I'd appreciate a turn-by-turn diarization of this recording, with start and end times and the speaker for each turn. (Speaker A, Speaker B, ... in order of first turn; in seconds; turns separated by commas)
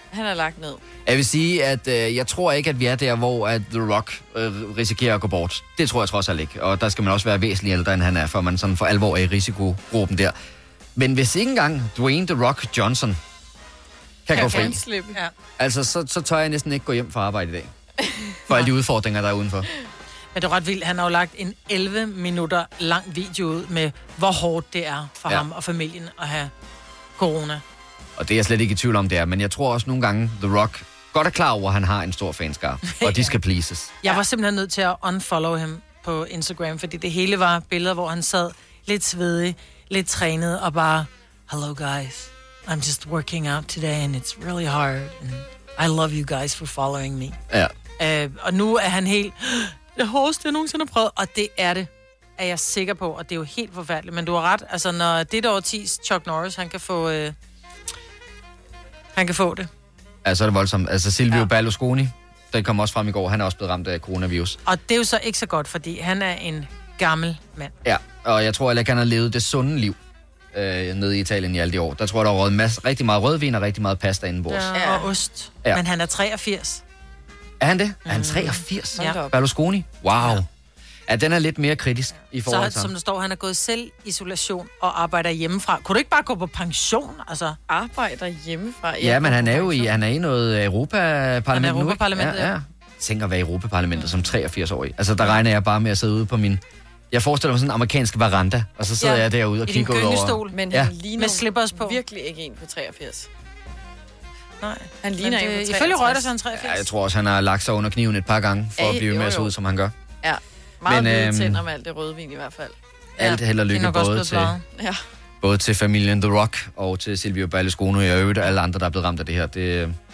Speaker A: 0.1-0.8, Speaker B: 1.1-10.3, Speaker B: 10.9-13.2, Speaker B: 14.2-14.8, Speaker A: 14.3-15.2, Speaker C: 14.3-15.3, Speaker B: 15.6-17.7, Speaker B: 18.5-19.7, Speaker C: 20.3-26.5, Speaker C: 27.2-27.6, Speaker B: 28.2-33.9, Speaker C: 32.9-33.3, Speaker C: 34.0-47.4, Speaker C: 48.0-57.3, Speaker C: 59.1-59.7, Speaker B: 60.2-64.6, Speaker C: 64.7-67.7, Speaker B: 67.8-70.0, Speaker B: 70.5-74.7, Speaker C: 74.5-76.8, Speaker A: 74.7-75.1, Speaker B: 77.6-80.5, Speaker C: 78.0-79.2, Speaker A: 79.0-79.4, Speaker B: 81.1-82.9, Speaker C: 82.4-87.6, Speaker A: 87.7-89.8, Speaker B: 89.0-100.9, Speaker C: 91.5-92.5, Speaker A: 94.0-94.3, Speaker C: 99.0-100.6, Speaker A: 100.5-103.3, Speaker C: 101.2-102.0, Speaker C: 104.6-106.9, Speaker A: 105.0-106.3, Speaker B: 106.5-109.9, Speaker A: 108.8-109.5, Speaker A: 110.2-112.8, Speaker B: 110.9-111.6, Speaker C: 113.2-114.6, Speaker B: 113.2-114.5, Speaker A: 114.7-115.0, Speaker B: 115.4-120.0